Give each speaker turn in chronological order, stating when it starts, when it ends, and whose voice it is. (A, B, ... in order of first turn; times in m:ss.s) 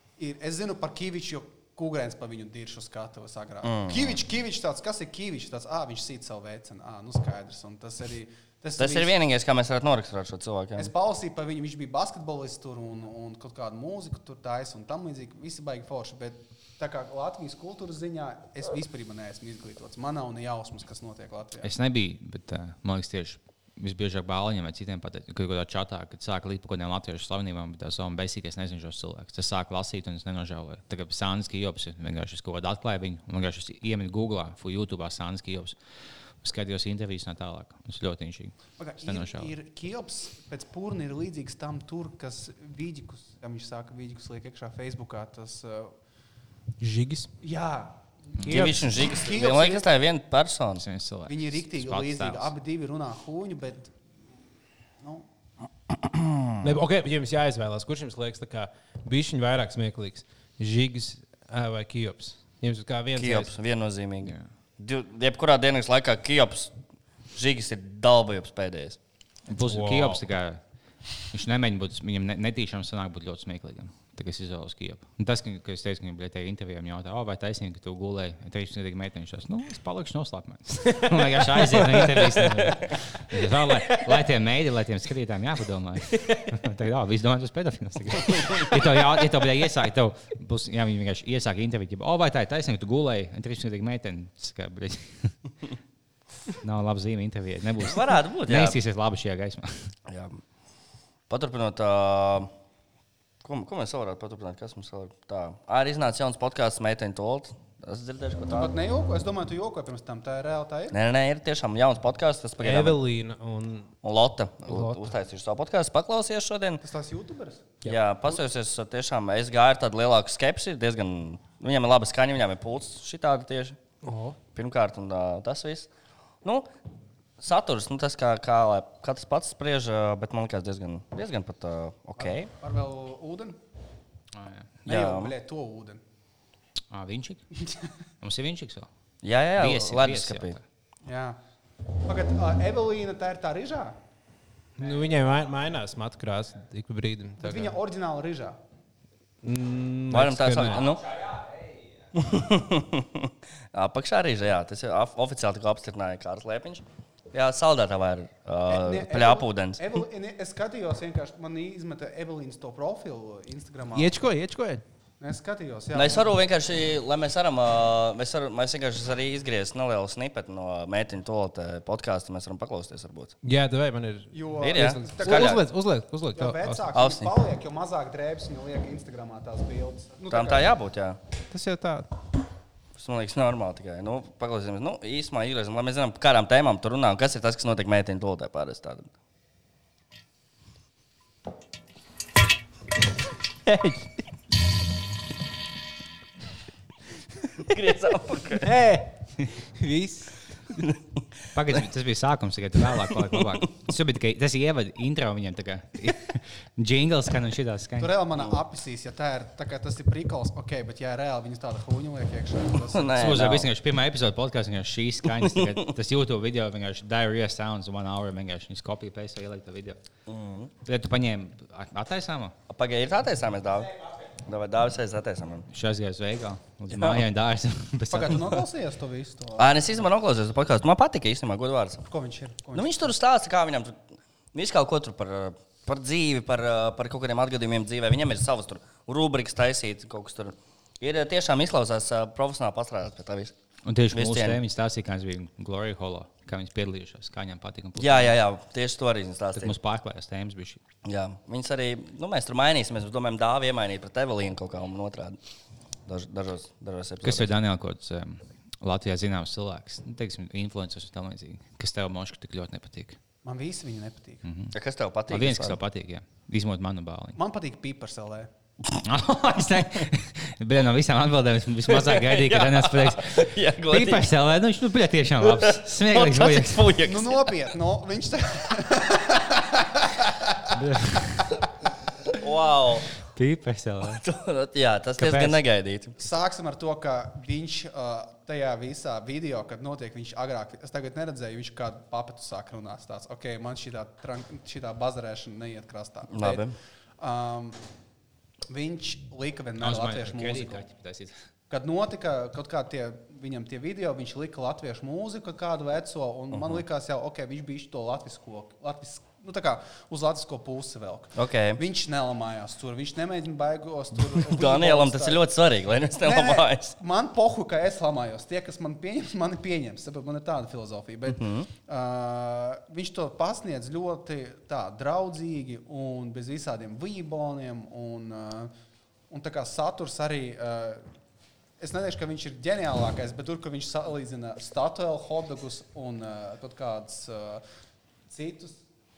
0:00.2-0:09.1 A
0:03.6-0:04.2 B
0:08.8-0:10.9 B
0:10.8-0:21.7 A
0:21.6-0:35.8 C
0:36.4-0:39.5 C
0:38.8-0:45.9 A
0:46.8-0:47.3 D
0:47.4-0:49.9 A
0:48.4-0:48.7 C
0:48.4-0:50.8 B
0:48.5-0:48.8 D
0:50.8-0:52.5 C
0:51.2-0:53.9 A
0:56.6-1:03.5 D
1:03.1-1:06.7 B
1:07.3-1:09.0 B
1:09.5-1:10.6 C
1:09.6-1:10.2 D
1:11.3-1:35.3 C
1:21.0-1:22.3 D
1:23.9-1:24.2 D
1:28.4-1:28.6 B
1:36.6-1:39.9 C
1:37.8-1:38.8 B
1:40.1-1:40.4 B
1:41.3-1:42.5 B
1:43.4-1:48.7 B
1:48.5-1:51.0 A
1:50.9-1:53.0 B
1:52.6-1:53.9 D
1:54.0-1:56.8 B
1:54.6-1:55.1 D
1:56.8-1:57.8 A
1:57.8-2:03.8 B
2:04.0-2:04.4 D
2:04.5-2:05.9 B
2:06.4-2:06.7 B
2:07.4-2:12.5 B
2:12.2-2:13.6 A
2:14.3-2:14.7 C
2:14.8-2:15.3 B
2:14.8-2:16.0 A
2:16.9-2:17.4 C
2:18.2-2:18.9 C
2:19.2-2:20.6 B
2:19.6-2:20.6 C
2:21.0-2:21.4 A
2:22.0-2:24.0 A
2:24.8-2:27.8 D
2:27.4-2:28.6 A
2:29.4-2:31.0 D
2:30.1-2:31.3 B
2:32.1-2:39.8 B
2:38.7-2:44.1 A
2:43.9-2:44.8 D
2:45.2-2:46.2 A
2:45.9-2:53.3 B
2:53.4-2:56.8 D
2:54.3-2:55.6 A
2:54.6-2:55.6 B
2:56.3-3:00.7 A
2:56.9-2:57.3 B
3:00.3-3:01.2 B
3:01.5-3:02.1 D
3:03.0-3:09.1 B
3:13.6-3:14.2 D
3:17.6-3:18.7 B
3:18.6-3:20.4 D
3:21.5-3:28.1 C
3:28.0-3:33.3 A
3:32.8-3:33.7 B
3:33.2-3:40.0 C
3:40.3-3:40.7 B
3:40.8-3:42.5 C
3:42.7-3:45.7 B
3:45.7-3:48.6 C
3:46.9-3:47.2 B
3:48.1-3:50.0 A
3:49.6-3:52.1 B
3:52.1-3:53.1 A
3:52.7-4:03.5 B
4:03.8-4:08.4 C
4:04.1-4:04.6 B
4:08.0-4:09.7 B
4:09.6-4:10.8 C
4:11.0-4:15.4 B
4:16.1-4:17.5 B
4:17.2-4:23.2 C
4:23.4-4:24.4 A
4:24.4-4:24.7 C
4:24.7-4:25.8 B
4:25.3-4:27.4 C
4:27.4-4:28.5 A
4:29.0-4:36.9 C
4:31.9-4:34.3 B
4:35.4-4:37.5 B
4:37.0-4:40.7 A
4:40.7-4:41.4 C
4:42.4-4:43.1 B
4:43.3-4:44.2 C
4:44.1-4:46.2 B
4:45.2-4:45.6 C
4:46.2-4:56.6 A
4:56.3-4:56.8 B
4:57.2-4:57.8 A
4:58.7-5:00.8 A
4:59.8-5:01.3 C
5:01.7-5:15.4 A
5:06.5-5:06.8 B
5:11.4-5:11.8 B
5:14.2-5:17.0 B
5:16.2-5:28.7 A
5:21.3-5:21.7 B
5:29.3-5:31.0 A
5:31.8-5:37.6 A
5:38.3-5:38.8 A